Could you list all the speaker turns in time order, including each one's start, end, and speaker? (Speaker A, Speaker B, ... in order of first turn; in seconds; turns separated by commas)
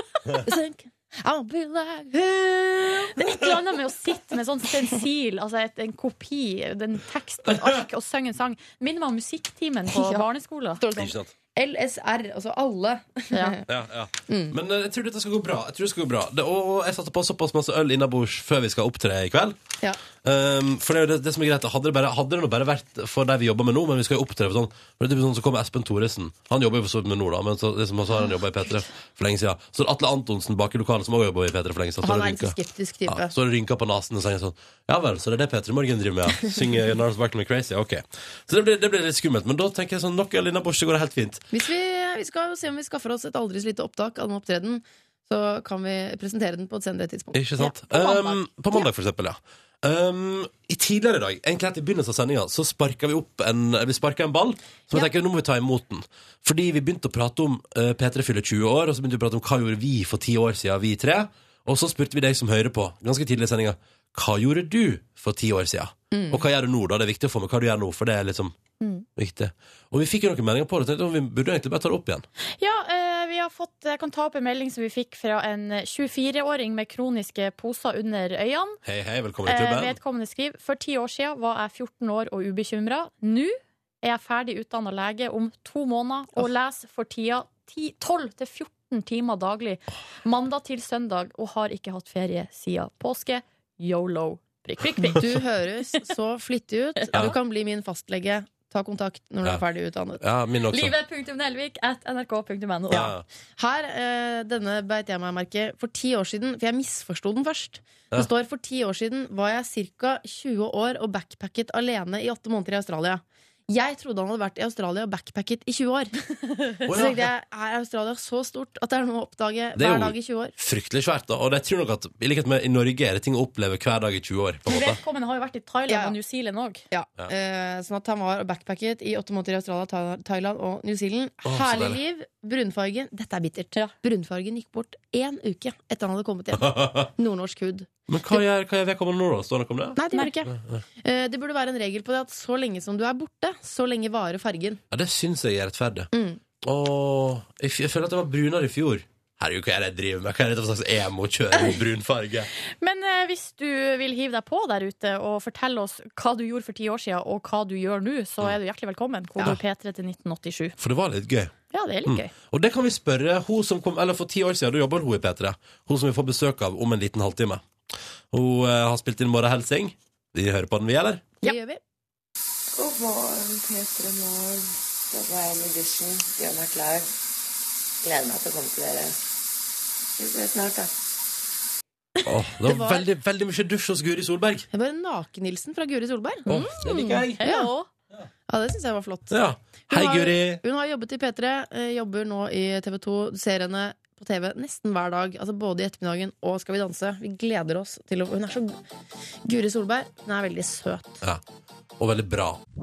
Speaker A: 0.4-3.2, Speaker B: 3.1-10.8, Speaker A: 9.9-10.3, Speaker A: 10.8-13.6, Speaker C: 10.9-11.3, Speaker B: 13.3-13.6, Speaker C: 13.7-19.6, Speaker A: 14.3-14.6, Speaker C: 20.2-32.5, Speaker A: 32.0-33.3, Speaker C: 33.1-41.4, Speaker A: 41.5-48.9, Speaker C: 47.3-68.5, Speaker A: 66.1-66.4, Speaker B: 68.8-69.0, Speaker C: 69.2-72.2, Speaker B: 72.6-78.8, Speaker C: 78.8-80.0, Speaker B: 79.5-95.3, Speaker A: 95.2-100.2, Speaker B: 97.0-97.3, Speaker C: 100.2-100.9, Speaker B: 100.7-103.1, Speaker C: 102.9-103.2, Speaker A: 102.9-116.1, Speaker A: 116.7-120.5, Speaker C: 116.8-117.3, Speaker C: 119.8-125.0, Speaker B: 124.7-126.8, Speaker A: 125.9-126.2, Speaker A: 126.9-138.4, Speaker C: 131.4-132.0, Speaker C: 136.6-137.1, Speaker C: 138.1-140.8, Speaker A: 139.9-144.8, Speaker C: 144.9-146.1, Speaker A: 146.1-146.4, Speaker C: 146.6-152.5, Speaker B: 152.8-160.8, Speaker C: 160.8-161.5, Speaker B: 161.7-162.3, Speaker C: 162.0-167.6, Speaker C: 168.3-171.2, Speaker A: 171.4-171.8, Speaker D: 172.7-177.1, Speaker D: 178.0-179.2, Speaker D: 180.2-180.9, Speaker C: 182.2-184.7, Speaker A: 182.6-183.1, Speaker A: 184.7-186.5, Speaker B: 186.5-187.9, Speaker C: 186.5-187.4, Speaker A: 187.4-187.7, Speaker A: 188.5-198.8, Speaker C: 189.3-190.6, Speaker A: 199.4-201.2, Speaker C: 202.0-202.6